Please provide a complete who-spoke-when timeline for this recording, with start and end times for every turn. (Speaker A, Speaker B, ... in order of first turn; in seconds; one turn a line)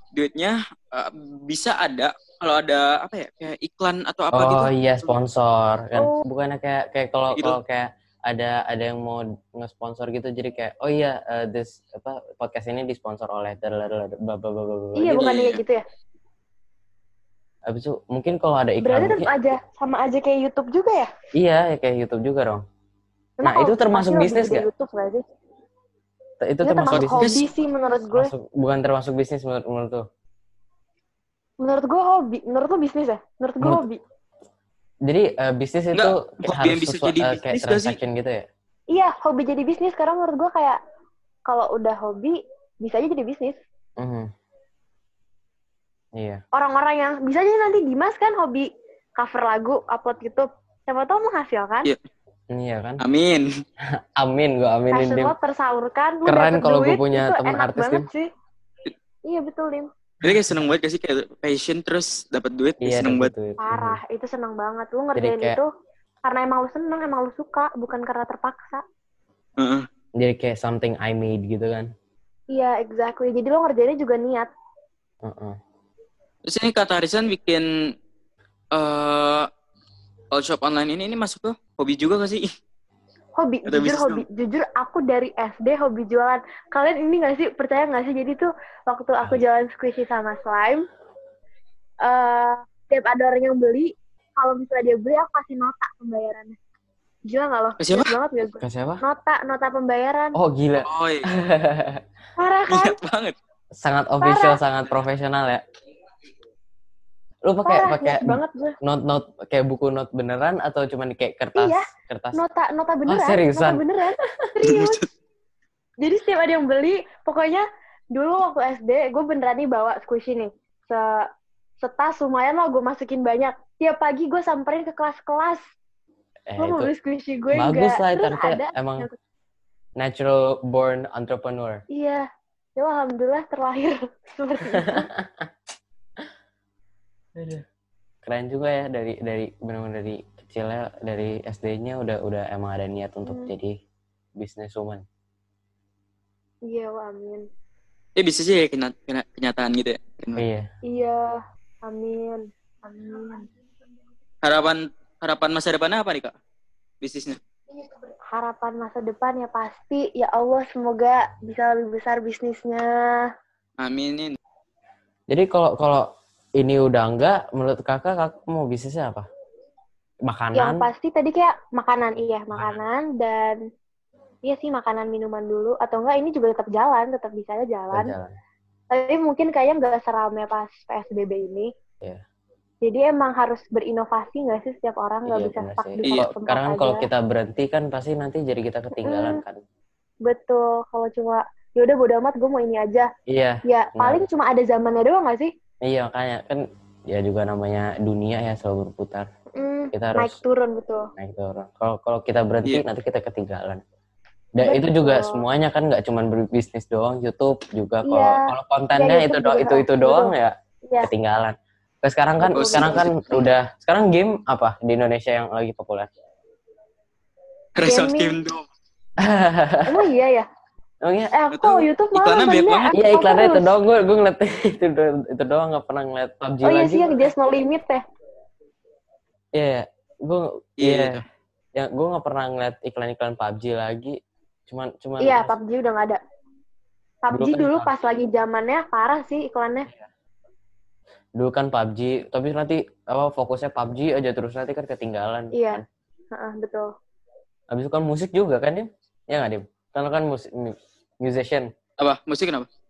Speaker A: 0.1-4.7
Speaker B: 4.3-15.3
Speaker C: 6.0-6.2
Speaker C: 15.0-15.8
Speaker A: 15.2-15.6
Speaker B: 17.7-19.3
Speaker C: 18.8-21.1
Speaker B: 21.4-22.6
Speaker C: 23.4-25.2
Speaker B: 23.4-24.7
Speaker B: 26.4-27.4
Speaker C: 26.6-28.3
Speaker A: 26.9-27.5
Speaker B: 28.1-30.0
Speaker C: 31.6-34.0
Speaker B: 35.0-38.5
Speaker A: 35.9-38.0
Speaker C: 38.9-40.8
Speaker C: 41.5-43.6
Speaker B: 44.0-44.3
Speaker B: 46.1-46.4
Speaker C: 46.5-51.9
Speaker B: 52.5-53.0
Speaker A: 53.0-53.5
Speaker B: 54.1-55.4
Speaker C: 54.9-58.3
Speaker B: 56.3-58.1
Speaker C: 59.3-59.9
Speaker A: 60.2-63.3
Speaker B: 60.2-60.7
Speaker B: 62.8-64.0
Speaker C: 63.6-65.7
Speaker B: 65.2-65.6
Speaker C: 66.2-68.8
Speaker A: 69.6-69.9
Speaker B: 70.2-71.9
Speaker C: 72.5-74.5
Speaker B: 75.2-75.6
Speaker A: 76.5-77.7
Speaker A: 78.7-79.5
Speaker A: 80.3-82.5
Speaker C: 83.4-90.9
Speaker A: 83.7-84.2
Speaker C: 92.0-96.6
Speaker C: 97.3-100.4
Speaker A: 97.8-98.1
Speaker B: 98.6-99.0
Speaker B: 100.3-102.0
Speaker A: 100.8-101.3
Speaker C: 102.4-103.0
Speaker A: 102.7-103.4
Speaker B: 103.8-105.6
Speaker C: 104.2-104.6
Speaker B: 107.5-112.4
Speaker C: 107.7-108.8
Speaker C: 111.5-115.0
Speaker B: 113.1-114.5
Speaker A: 114.7-115.0
Speaker C: 116.0-121.3
Speaker C: 121.8-125.6
Speaker B: 126.5-126.9
Speaker C: 126.6-129.2
Speaker B: 127.5-129.1
Speaker B: 130.0-131.8
Speaker C: 131.9-135.1
Speaker B: 134.8-135.5
Speaker B: 137.4-137.7
Speaker B: 138.2-143.8
Speaker C: 143.2-143.5
Speaker B: 144.4-145.1
Speaker C: 146.7-147.5
Speaker A: 148.2-150.4
Speaker B: 150.4-150.7
Speaker C: 150.9-153.5
Speaker A: 154.4-156.3
Speaker A: 157.0-157.4
Speaker C: 158.3-163.3
Speaker A: 163.8-164.4
Speaker B: 165.3-169.3
Speaker B: 170.2-170.9
Speaker C: 170.6-173.6
Speaker C: 174.4-178.2
Speaker B: 177.9-178.3
Speaker C: 178.9-181.7
Speaker C: 182.8-187.1
Speaker B: 185.3-189.6
Speaker C: 189.0-189.4
Speaker C: 190.2-193.1
Speaker B: 193.3-194.2
Speaker C: 193.7-195.5
Speaker B: 195.8-199.3
Speaker C: 199.5-201.1
Speaker B: 199.9-200.4
Speaker B: 201.2-203.8
Speaker B: 204.6-216.1
Speaker C: 204.6-205.4
Speaker C: 208.1-208.4
Speaker C: 209.0-210.3
Speaker C: 212.4-213.5
Speaker A: 212.6-213.1
Speaker A: 217.8-218.6
Speaker C: 217.9-218.4
Speaker B: 219.2-220.1
Speaker C: 219.9-220.5
Speaker B: 221.0-221.3
Speaker C: 221.3-223.7
Speaker A: 221.5-222.9
Speaker B: 222.9-227.3
Speaker C: 226.6-228.0
Speaker B: 229.5-231.2
Speaker A: 230.8-231.2
Speaker B: 231.8-234.2
Speaker B: 234.7-235.6
Speaker C: 235.2-236.2
Speaker C: 237.2-239.9
Speaker B: 237.3-237.9
Speaker B: 241.4-245.8
Speaker C: 245.5-246.9
Speaker B: 247.7-251.7
Speaker A: 252.0-252.7